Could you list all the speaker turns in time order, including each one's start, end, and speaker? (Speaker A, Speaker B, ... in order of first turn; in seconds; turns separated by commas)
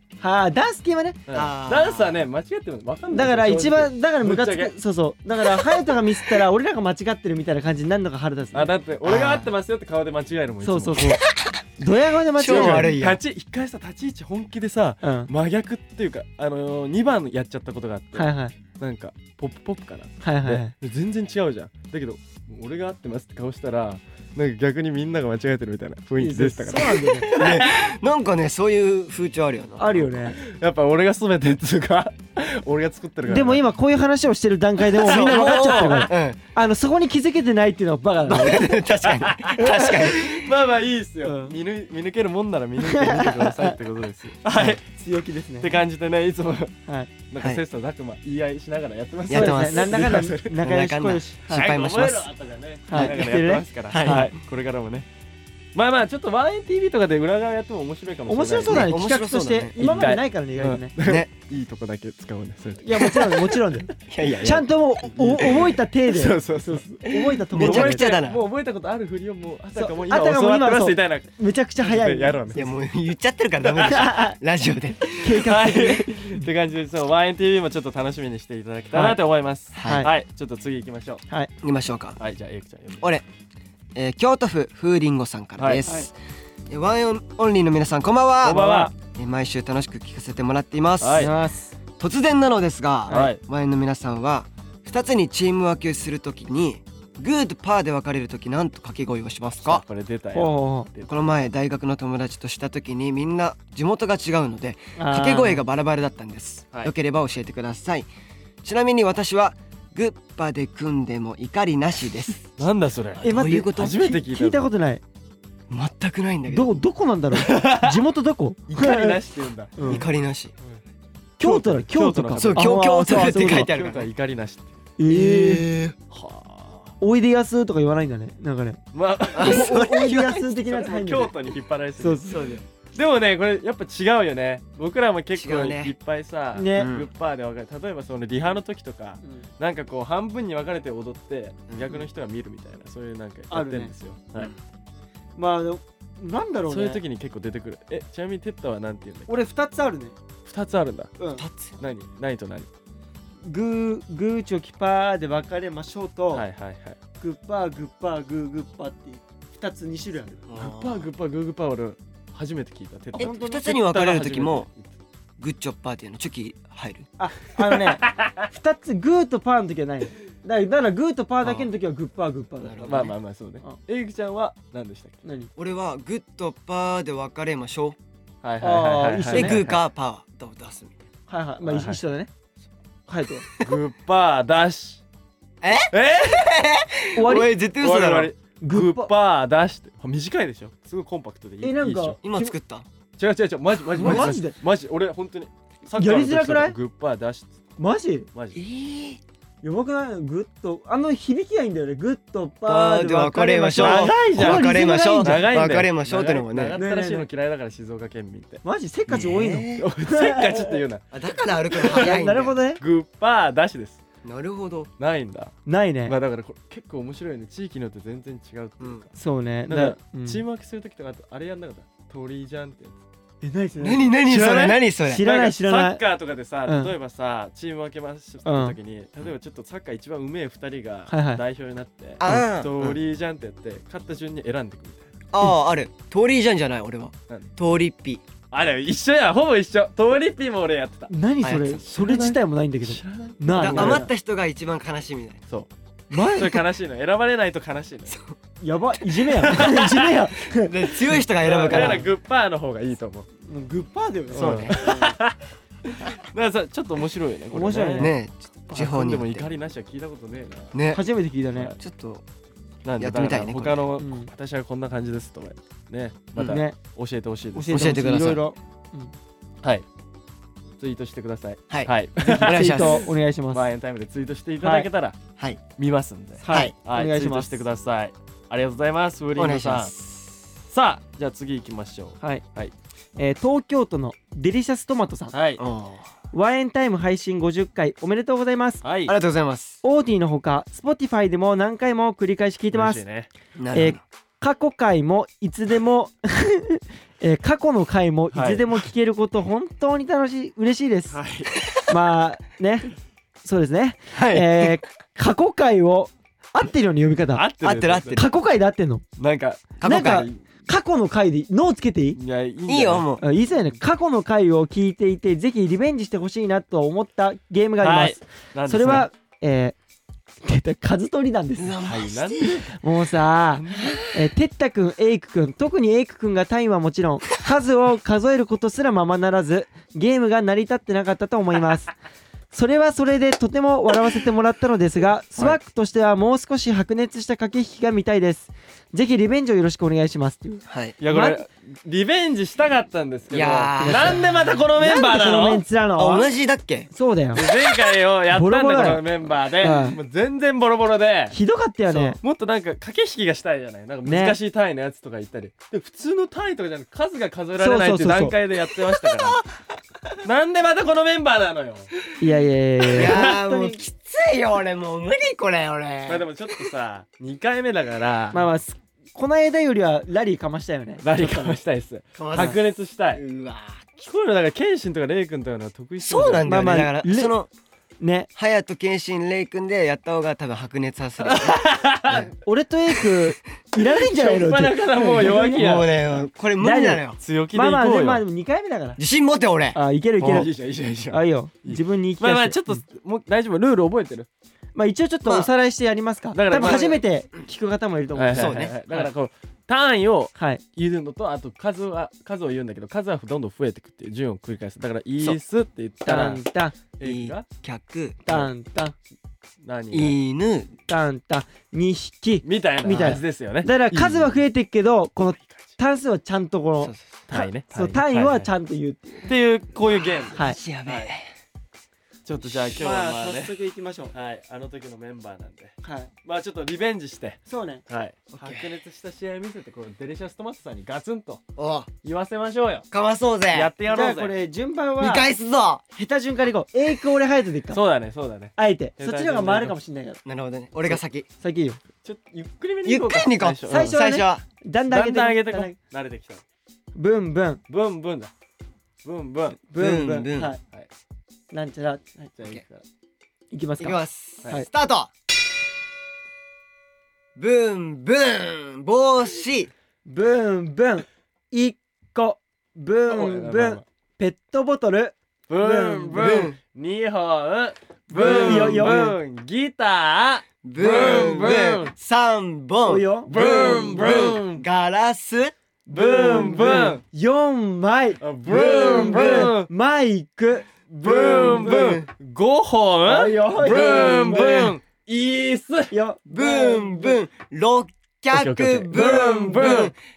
Speaker A: 0.2-1.2, Speaker B: 1.3-4.7, Speaker C: 1.3-2.2, Speaker A: 3.1-8.7, Speaker B: 8.5-11.1, Speaker C: 9.0-9.5, Speaker A: 10.6-11.2, Speaker A: 11.8-12.9, Speaker C: 12.4-13.2, Speaker B: 12.4-27.6, Speaker A: 15.0-15.3, Speaker A: 18.1-18.6, Speaker A: 20.2-20.7, Speaker A: 26.2-27.4, Speaker C: 27.3-30.1, Speaker A: 29.8-30.4, Speaker B: 30.4-33.6, Speaker A: 33.3-38.9, Speaker C: 35.0-36.4, Speaker B: 35.0-36.1, Speaker C: 38.3-40.5, Speaker B: 39.0-44.8, Speaker A: 39.5-40.1, Speaker A: 41.2-41.5, Speaker A: 42.8-43.8, Speaker A: 44.6-45.8, Speaker B: 45.6-46.8, Speaker B: 47.3-50.6, Speaker C: 49.3-52.3, Speaker A: 49.3-51.7, Speaker B: 51.5-55.1, Speaker A: 52.9-54.3, Speaker C: 53.0-53.2, Speaker C: 53.9-54.3, Speaker B: 55.8-58.9, Speaker A: 58.3-60.9, Speaker C: 58.6-59.8, Speaker B: 59.8-63.7, Speaker C: 61.0-61.3, Speaker A: 62.8-63.9, Speaker C: 64.1-64.7, Speaker B: 64.2-64.6, Speaker A: 64.4-68.1, Speaker B: 65.2-72.7, Speaker C: 67.5-68.4, Speaker A: 69.8-72.5, Speaker C: 72.5-75.2, Speaker B: 73.7-74.0, Speaker A: 73.9-74.4, Speaker A: 75.2-76.5, Speaker B: 75.2-81.2, Speaker A: 78.9-79.2, Speaker C: 79.7-80.1, Speaker A: 79.8-80.1, Speaker C: 81.6-82.2, Speaker B: 82.2-83.0, Speaker C: 83.0-83.2, Speaker C: 84.0-86.1, Speaker B: 85.6-85.8, Speaker C: 86.7-91.3, Speaker B: 88.4-88.9, Speaker A: 88.5-88.9, Speaker B: 91.0-91.3, Speaker A: 91.1-91.7, Speaker C: 92.0-99.8, Speaker A: 93.1-93.3, Speaker B: 93.1-93.4, Speaker B: 99.6-101.2, Speaker A: 100.3-100.9, Speaker C: 101.1-108.1, Speaker A: 105.0-105.6, Speaker C: 108.6-112.6, Speaker B: 112.6-114.7, Speaker C: 113.2-114.0, Speaker A: 113.2-115.0, Speaker C: 115.7-116.7, Speaker A: 116.5-119.2, Speaker B: 117.3-118.0, Speaker B: 118.7-119.8, Speaker A: 119.8-120.0, Speaker C: 119.8-120.5, Speaker A: 121.4-123.7, Speaker B: 121.4-124.8, Speaker C: 122.4-124.1, Speaker A: 125.0-125.7, Speaker C: 125.1-126.0, Speaker B: 126.1-126.9, Speaker A: 127.0-128.8, Speaker B: 128.9-132.4, Speaker C: 129.3-130.5, Speaker A: 129.4-131.3, Speaker A: 132.0-132.4, Speaker C: 132.3-132.6, Speaker B: 132.9-144.5, Speaker C: 135.3-135.9, Speaker A: 136.6-136.9, Speaker C: 136.8-137.1, Speaker C: 141.7-142.0, Speaker A: 143.5-143.9, Speaker A: 145.4-147.0, Speaker B: 146.7-149.3, Speaker A: 149.3-150.2, Speaker B: 150.4-151.1, Speaker A: 151.2-151.4, Speaker C: 151.4-151.8, Speaker B: 151.8-152.7, Speaker A: 153.4-156.4, Speaker B: 156.3-157.0, Speaker A: 157.2-160.4, Speaker C: 160.5-161.1, Speaker B: 160.6-164.9, Speaker A: 163.2-163.7, Speaker C: 163.2-164.7, Speaker C: 165.4-167.1, Speaker A: 167.2-173.8, Speaker B: 167.6-168.3, Speaker C: 172.6-173.1, Speaker B: 172.8-175.2, Speaker A: 175.2-175.5, Speaker C: 175.6-178.0, Speaker B: 178.4-179.8, Speaker A: 178.6-179.6, Speaker C: 179.3-181.0, Speaker A: 181.3-182.3, Speaker B: 181.6-182.0, Speaker A: 183.1-183.5, Speaker B: 183.6-185.0, Speaker C: 185.6-188.3, Speaker B: 185.9-186.6, Speaker A: 187.2-187.5, Speaker B: 187.8-192.2, Speaker A: 188.6-189.1, Speaker A: 191.6-192.5, Speaker C: 192.2-192.9, Speaker B: 193.2-197.5, Speaker A: 193.9-194.6, Speaker A: 196.0-196.8, Speaker A: 197.8-198.3, Speaker B: 198.3-198.6, Speaker C: 198.5-199.2, Speaker A: 199.6-205.5, Speaker C: 202.7-206.8, Speaker B: 203.8-208.6, Speaker A: 206.8-207.3, Speaker A: 208.6-210.8, Speaker C: 209.1-209.9, Speaker B: 209.8-211.1, Speaker C: 211.1-212.6, Speaker B: 211.8-212.2, Speaker A: 211.9-212.8, Speaker B: 212.8-214.0, Speaker C: 214.2-214.9, Speaker B: 215.0-219.1, Speaker A: 215.7-216.2, Speaker A: 219.2-220.4, Speaker B: 219.7-223.0, Speaker A: 223.4-224.1, Speaker C: 223.8-225.3, Speaker B: 224.3-235.1, Speaker A: 225.1-226.0, Speaker A: 226.7-226.9, Speaker A: 228.4-228.8, Speaker A: 231.1-231.4, Speaker C: 232.2-233.0, Speaker C: 235.3-238.2, Speaker B: 238.5-241.1, Speaker A: 241.1-244.1, Speaker C: 241.4-241.8, Speaker B: 241.8-244.1, Speaker C: 243.5-245.4, Speaker B: 245.5-248.2, Speaker A: 246.1-246.6, Speaker C: 248.1-248.4, Speaker A: 248.6-252.0, Speaker B: 249.3-250.2, Speaker C: 250.6-252.1, Speaker B: 251.5-253.3, Speaker A: 253.5-255.2, Speaker B: 254.3-258.1, Speaker C: 254.3-254.8, Speaker A: 257.5-258.1, Speaker C: 258.0-259.5, Speaker B: 258.7-260.7, Speaker C: 260.7-261.0, Speaker A: 260.9-261.7, Speaker C: 261.8-262.2, Speaker B: 262.9-267.9, Speaker C: 263.0-263.8, Speaker A: 264.0-264.3, Speaker A: 266.4-266.8, Speaker A: 267.5-269.1, Speaker C: 267.7-268.4, Speaker B: 270.8-273.0, Speaker C: 271.7-273.1, Speaker A: 272.3-273.7, Speaker B: 273.5-275.2, Speaker A: 274.6-274.9, Speaker B: 275.8-279.9, Speaker A: 276.4-277.6, Speaker C: 276.5-276.7, Speaker C: 279.4-280.3, Speaker B: 280.7-282.7, Speaker A: 283.2-285.3, Speaker B: 285.3-285.6, Speaker C: 285.6-286.1, Speaker A: 286.3-288.8, Speaker B: 288.8-289.1, Speaker C: 289.1-289.8, Speaker A: 289.8-293.0, Speaker B: 292.7-293.3, Speaker C: 293.6-294.0, Speaker A: 293.7-301.2, Speaker B: 298.3-298.8, Speaker B: 301.1-301.5, Speaker A: 301.9-302.9, Speaker A: 303.4-307.4, Speaker C: 304.1-304.8, Speaker B: 307.3-308.2, Speaker C: 307.6-308.2, Speaker A: 308.1-309.0, Speaker B: 309.2-310.3, Speaker C: 309.8-310.3, Speaker A: 309.8-312.2, Speaker B: 312.2-313.1, Speaker C: 312.7-313.2, Speaker A: 313.2-319.8, Speaker B: 317.8-319.1, Speaker A: 320.4-321.8, Speaker C: 321.6-322.6, Speaker B: 321.8-322.8, Speaker A: 322.8-331.9, Speaker B: 323.6-324.0, Speaker C: 323.7-324.1, Speaker A: 332.5-341.4, Speaker C: 340.7-341.0, Speaker B: 341.0-345.6, Speaker C: 343.3-344.2, Speaker A: 343.8-344.2, Speaker A: 344.8-346.3, Speaker C: 346.0-346.9, Speaker A: 346.9-347.4, Speaker B: 347.4-351.4, Speaker A: 348.3-349.1, Speaker A: 349.6-350.0, Speaker A: 351.3-352.2, Speaker B: 351.9-359.4, Speaker A: 354.1-354.4, Speaker A: 357.6-358.4, Speaker C: 358.9-359.4, Speaker B: 360.2-361.9, Speaker A: 362.2-363.8, Speaker B: 362.9-363.4, Speaker C: 362.9-366.7, Speaker B: 366.1-368.4, Speaker A: 368.3-371.6, Speaker B: 371.0-373.2, Speaker C: 372.2-374.0, Speaker B: 374.0-376.5, Speaker C: 376.0-377.5, Speaker A: 376.5-377.3, Speaker A: 378.0-378.3, Speaker C: 378.4-382.3, Speaker B: 381.2-382.3, Speaker A: 382.4-385.7, Speaker B: 384.0-386.2, Speaker C: 385.4-387.2, Speaker A: 386.6-389.0, Speaker B: 387.2-388.2, Speaker C: 389.0-389.8, Speaker A: 389.8-390.5, Speaker B: 390.2-394.3, Speaker A: 391.1-392.8, Speaker A: 394.8-399.1, Speaker B: 396.3-397.0, Speaker C: 396.5-397.0, Speaker B: 398.1-406.4, Speaker C: 398.3-398.8, Speaker A: 400.4-400.6, Speaker A: 406.1-406.8, Speaker B: 407.0-407.5, Speaker C: 407.0-408.2, Speaker A: 408.3-408.9, Speaker B: 409.6-410.2, Speaker C: 409.9-410.7, Speaker A: 410.9-419.3, Speaker B: 412.4-414.4, Speaker C: 412.9-413.2, Speaker C: 416.8-417.1, Speaker B: 417.3-418.5, Speaker B: 419.3-421.1, Speaker C: 419.9-421.3, Speaker A: 420.3-420.6, Speaker B: 422.3-423.5, Speaker A: 422.8-424.1, Speaker B: 424.1-431.4, Speaker A: 425.8-426.1, Speaker A: 427.5-427.8, Speaker C: 428.3-428.8, Speaker C: 431.6-431.9, Speaker B: 432.0-432.9, Speaker C: 432.9-433.7, Speaker B: 433.5-434.4, Speaker A: 433.9-435.3, Speaker C: 435.0-435.8, Speaker A: 435.9-437.8, Speaker B: 437.7-439.8, Speaker A: 438.6-440.2, Speaker C: 440.2-441.3, Speaker A: 440.9-441.8, Speaker B: 442.0-444.0, Speaker C: 442.9-444.4, Speaker A: 443.7-445.8, Speaker B: 444.9-446.4, Speaker A: 446.9-447.6, Speaker B: 447.7-448.3, Speaker B: 449.1-449.6, Speaker A: 449.7-450.6, Speaker C: 449.7-450.5, Speaker A: 451.5-452.3, Speaker B: 452.4-452.8, Speaker A: 453.5-454.7, Speaker C: 453.8-455.1, Speaker C: 457.4-459.7, Speaker A: 460.1-466.2, Speaker B: 463.1-463.8, Speaker B: 465.5-471.9, Speaker C: 466.1-466.6, Speaker A: 468.1-469.2, Speaker C: 468.2-468.7, Speaker C: 470.6-475.5, Speaker A: 472.9-473.7, Speaker B: 473.3-474.6, Speaker A: 475.9-482.0, Speaker B: 475.9-477.0, Speaker B: 478.2-479.7, Speaker C: 478.5-479.5, Speaker B: 481.0-485.9, Speaker C: 481.0-482.1, Speaker A: 483.1-484.7, Speaker C: 483.7-484.7, Speaker A: 485.9-487.2, Speaker C: 486.3-489.9, Speaker B: 488.3-489.9